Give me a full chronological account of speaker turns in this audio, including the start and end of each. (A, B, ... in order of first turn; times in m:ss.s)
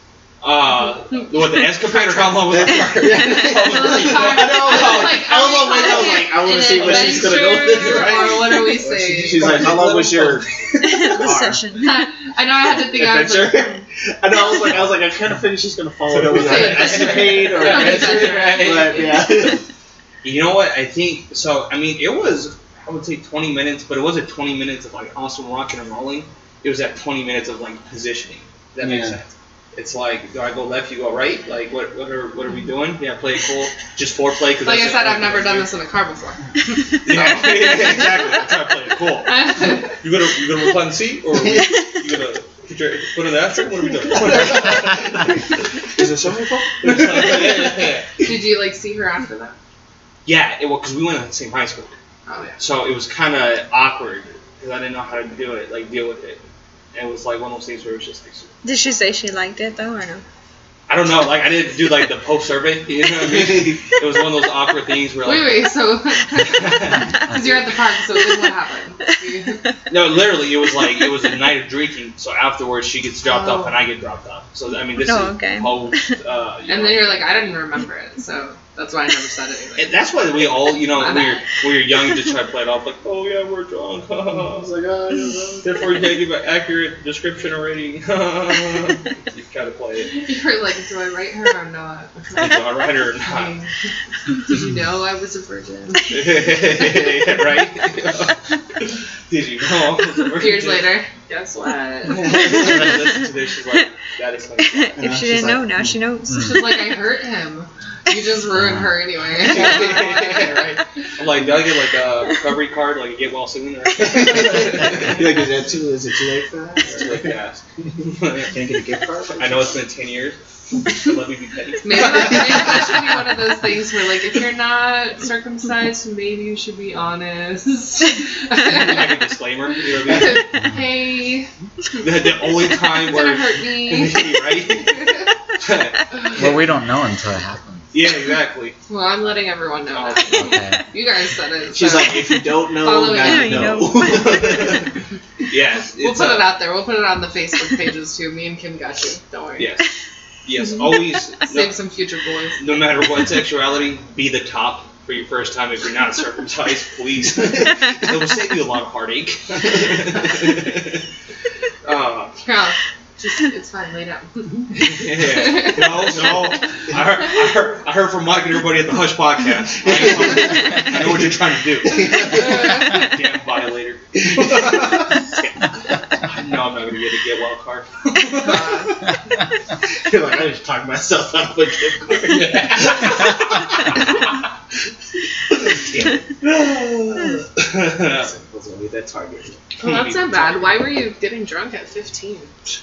0:00.4-0:06.1 A
0:01.6-0:03.3 B
0:02.3-0:11.6 C
0:03.4-0:09.6 D
0:06.7-0:11.2 A
0:10.8-0:12.1 B
0:11.8-0:13.8 D
0:12.7-0:13.7 A
0:14.2-0:19.6 C
0:14.5-0:15.0 A
0:16.1-0:19.3 A
0:16.3-0:19.2 D
0:20.2-0:35.7 A
0:28.8-0:29.2 C
0:34.6-0:36.4 D
0:37.0-0:45.6 A
0:39.3-0:39.9 D
0:46.0-0:47.9 C
0:46.8-0:48.2 A
0:48.2-0:49.6 D
0:50.2-0:51.9 A
0:52.3-0:52.6 D
0:52.6-0:56.4 A
0:56.9-0:58.5 A
0:58.6-1:00.2 B
1:00.9-1:05.7 A
1:05.2-1:09.6 D
1:06.5-1:07.1 A
1:09.9-1:17.6 A
1:13.2-1:13.8 D
1:15.0-1:16.1 B
1:16.7-1:20.0 D
1:19.8-1:24.7 A
1:20.9-1:21.5 D
1:24.3-1:25.8 C
1:25.6-1:30.2 A
1:30.2-1:32.6 D
1:32.3-1:33.5 A
1:33.2-1:33.7 D
1:34.4-1:36.2 D
1:36.1-1:40.9 A
1:40.4-1:42.4 D
1:42.1-1:45.0 A
1:44.6-1:46.6 B
1:45.0-1:45.8 C
1:46.3-1:46.9 E
1:46.4-1:50.8 D
1:48.6-1:48.9 E
1:49.4-1:55.5 A
1:54.1-1:57.3 C
1:56.8-1:58.6 A
1:58.4-1:59.8 C
1:59.4-2:03.0 A
2:01.8-2:09.2 D
2:08.6-2:10.5 A
2:10.0-2:11.5 D
2:12.0-2:16.7 A
2:13.0-2:15.3 D
2:16.3-2:17.9 E
2:17.9-2:18.8 A
2:18.9-2:23.8 D
2:19.9-2:20.6 A
2:20.3-2:20.9 E
2:21.7-2:24.9 C
2:23.1-2:24.5 B
2:24.1-2:24.9 A
2:25.5-2:26.5 A
2:26.0-2:29.7 D
2:29.6-2:29.9 A
2:30.4-2:31.8 A
2:31.4-2:32.6 D
2:32.6-2:41.0 A
2:41.8-2:42.4 A
2:42.4-2:46.2 D
2:44.9-2:55.3 A
2:49.8-2:51.3 C
2:51.8-2:52.8 C
2:54.4-2:54.8 C
2:56.2-2:59.0 A
2:58.4-2:59.0 D
3:00.1-3:03.3 C
3:02.2-3:04.0 A
3:05.6-3:06.2 C
3:05.7-3:08.3 A
3:08.1-3:09.6 C
3:09.8-3:12.5 D
3:09.8-3:10.8 A